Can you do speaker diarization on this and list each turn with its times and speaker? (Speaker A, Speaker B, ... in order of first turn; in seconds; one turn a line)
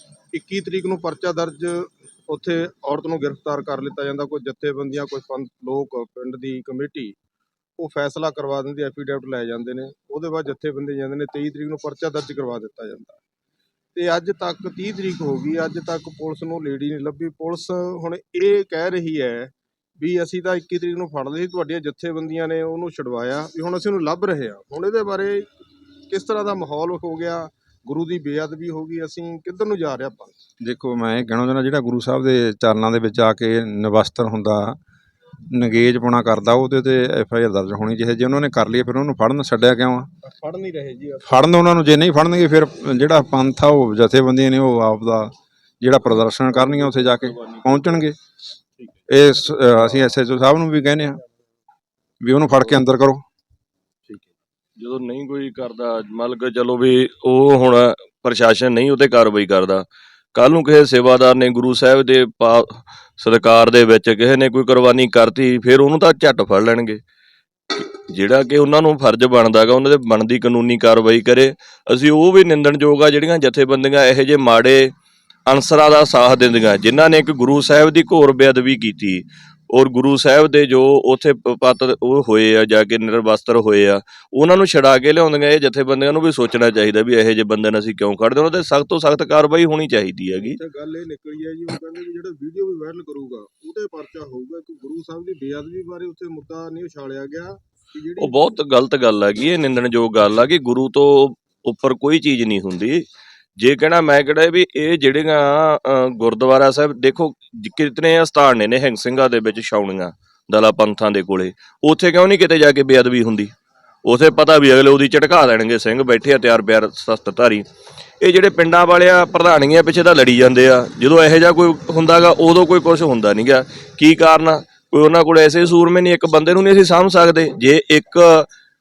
Speaker A: 0.3-7.2
Speaker A: 7.8-13.2
Speaker A: 13.9-25.5
Speaker A: 26.1-30.4
Speaker B: 30.6-34.8
Speaker B: 35.5-40.1
Speaker A: 40.2-41.5
Speaker B: 41.2-48.1
Speaker A: 46.9-47.6
Speaker B: 49.1-51.2
Speaker B: 52.2-53.2
Speaker C: 54.8-67.0
Speaker C: 67.7-74.9
Speaker C: 75.5-90.6
Speaker A: 90.4-98.6
Speaker C: 98.2-103.0
Speaker C: 103.6-113.5
Speaker C: 114.0-117.7
Speaker C: 118.2-128.5